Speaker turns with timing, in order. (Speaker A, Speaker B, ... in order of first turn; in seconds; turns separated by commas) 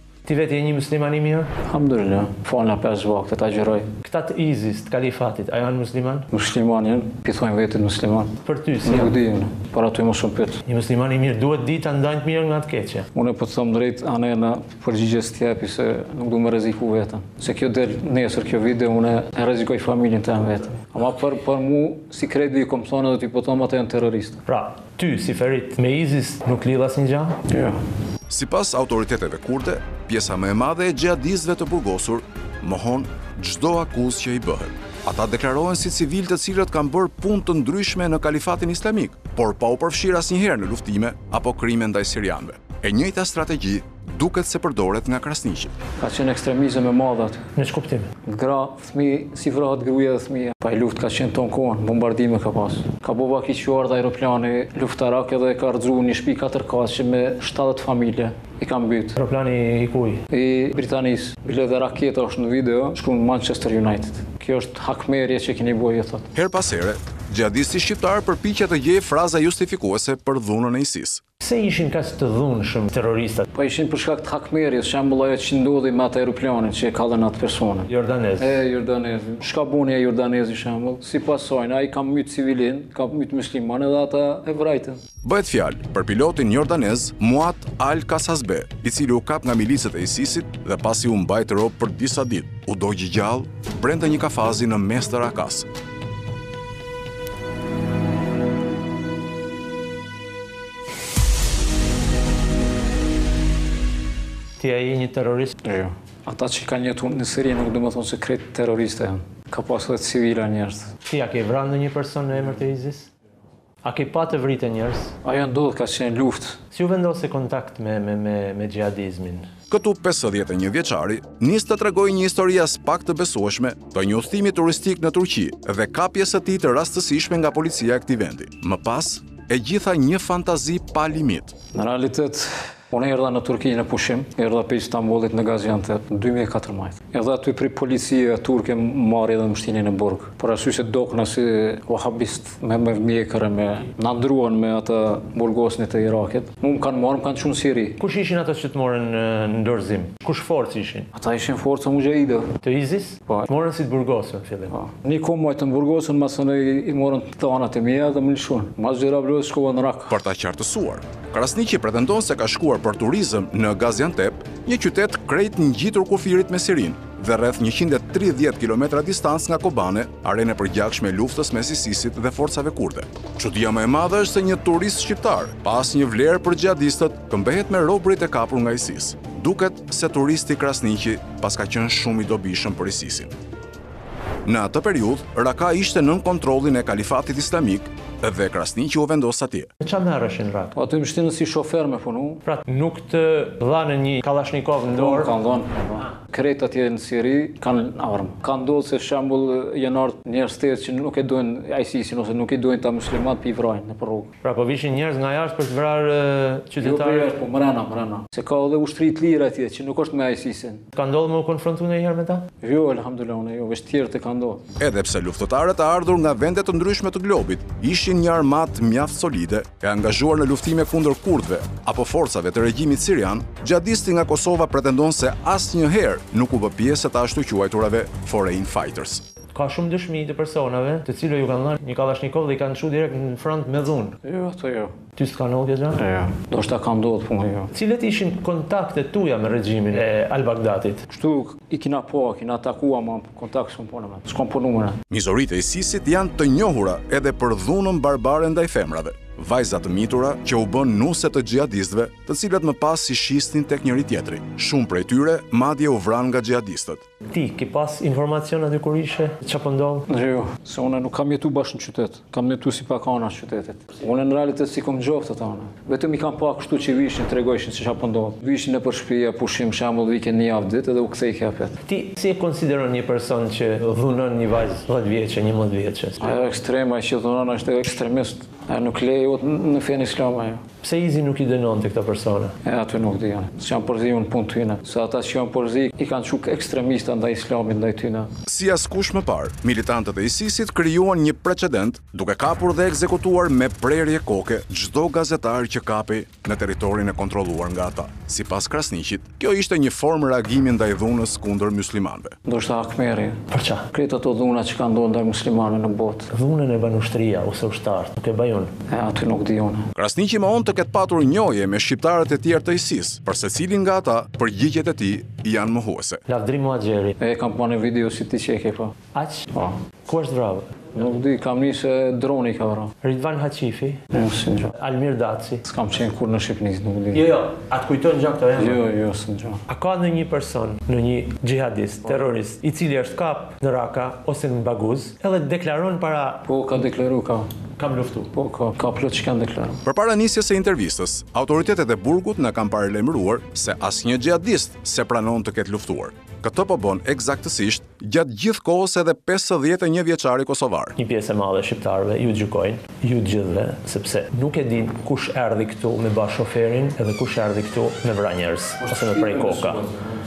Speaker A: 0.2-1.5, Speaker B: 1.7-3.9, Speaker A: 4.0-6.3, Speaker B: 6.3-10.6, Speaker A: 8.4-9.2, Speaker A: 10.7-13.1, Speaker B: 13.1-24.4, Speaker A: 24.5-27.4, Speaker B: 27.5-27.8, Speaker C: 28.3-45.7, Speaker B: 46.0-47.5, Speaker A: 47.6-48.1, Speaker B: 48.2-59.1, Speaker A: 59.2-60.2, Speaker B: 60.3-66.3, Speaker C: 66.3-71.2, Speaker A: 71.4-73.5, Speaker B: 73.5-85.0, Speaker A: 77.9-78.5, Speaker C: 85.2-95.7, Speaker A: 104.6-105.5, Speaker B: 105.6-110.9, Speaker A: 111.0-113.1, Speaker A: 113.8-115.2, Speaker B: 115.2-116.6, Speaker A: 116.7-119.5, Speaker C: 119.7-131.6, Speaker B: 131.7-148.0, Speaker A: 148.0-151.1, Speaker B: 151.1-152.5, Speaker A: 152.6-154.8, Speaker B: 154.7-160.2, Speaker C: 160.1-183.3, Speaker C: 184.4-189.7, Speaker A: 189.8-190.7, Speaker B: 190.7-192.4, Speaker A: 192.4-196.1, Speaker B: 194.9-204.3, Speaker A: 204.4-207.4, Speaker B: 206.8-210.8, Speaker A: 210.9-212.5, Speaker B: 212.6-214.6, Speaker C: 214.8-229.2, Speaker A: 229.5-234.2, Speaker B: 234.2-235.0, Speaker A: 235.2-236.0, Speaker B: 235.9-237.7, Speaker A: 237.7-241.0, Speaker B: 241.1-245.0, Speaker C: 245.1-257.0, Speaker A: 257.3-260.1, Speaker B: 260.1-271.7, Speaker A: 271.9-276.4, Speaker B: 276.2-280.6, Speaker A: 280.8-282.6, Speaker B: 282.6-288.3, Speaker C: 288.5-302.4, Speaker B: 302.5-306.3, Speaker A: 303.5-303.9, Speaker A: 306.3-308.7, Speaker B: 308.9-309.9, Speaker C: 310.0-316.2, Speaker A: 316.3-317.1, Speaker B: 317.2-318.9, Speaker A: 319.1-320.7, Speaker B: 319.5-319.9, Speaker B: 320.9-322.9, Speaker A: 323.0-324.0, Speaker B: 324.1-324.7, Speaker A: 324.7-325.6, Speaker B: 325.6-327.2, Speaker A: 327.1-328.8, Speaker B: 328.6-329.6, Speaker A: 329.7-336.4, Speaker B: 336.5-337.5, Speaker A: 337.8-338.3, Speaker B: 338.3-339.8, Speaker C: 339.9-350.9, Speaker A: 351.0-359.9